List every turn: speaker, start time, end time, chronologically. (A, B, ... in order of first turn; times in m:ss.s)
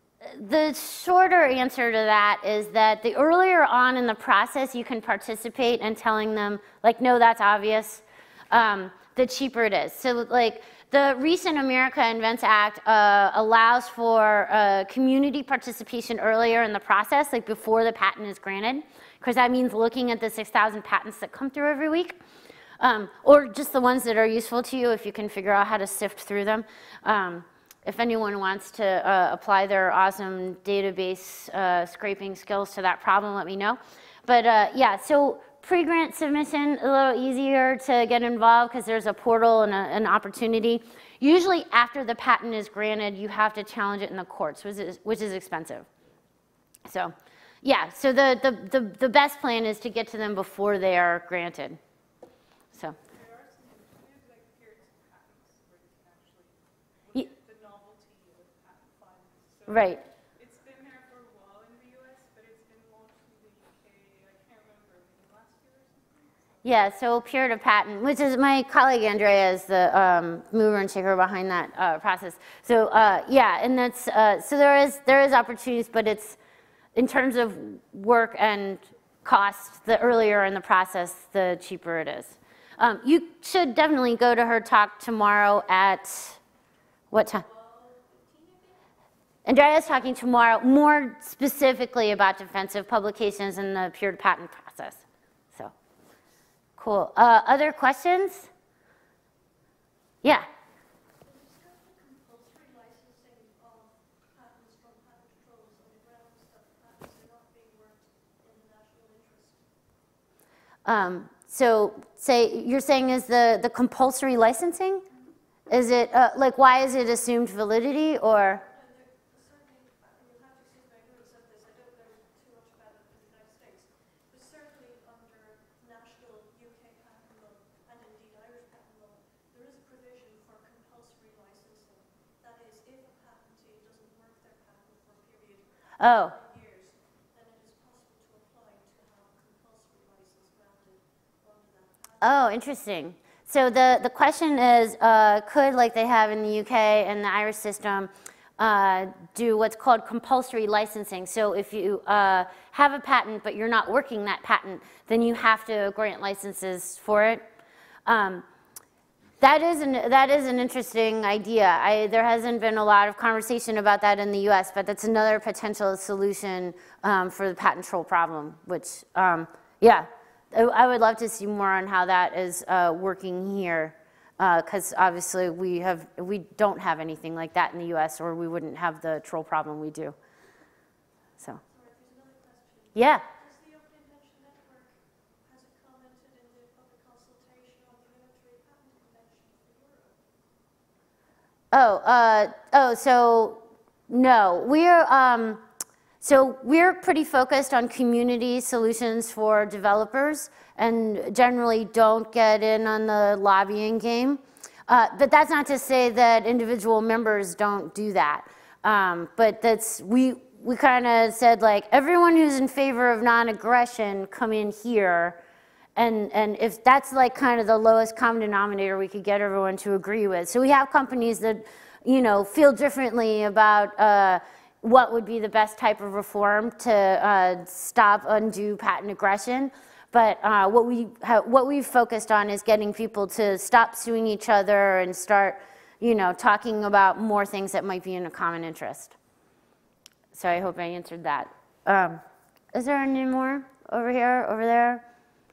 0:00.3-0:22.2 A
0:22.8-0:45.9 A
0:46.9-0:51.8 A
0:52.8-1:06.8 B
0:59.7-1:00.0 A
1:06.6-1:16.4 A
1:17.0-1:26.4 A
1:27.1-1:27.4 A
1:27.2-1:28.9 B
1:29.5-1:35.0 A
1:36.8-1:38.5 A
1:41.2-1:49.7 C
1:50.9-1:55.0 A
1:55.7-1:58.6 A
1:56.4-1:57.1 C
1:58.2-2:22.7 C
2:16.0-2:16.3 A
2:22.2-2:37.4 A
2:38.1-2:38.4 A
2:39.4-3:00.2 A
3:01.6-3:10.3 C
3:03.0-3:03.2 A
3:11.7-3:15.6 A
3:16.2-3:35.4 A
3:36.0-3:59.2 A
4:00.3-4:02.2 A
4:02.7-4:05.0 A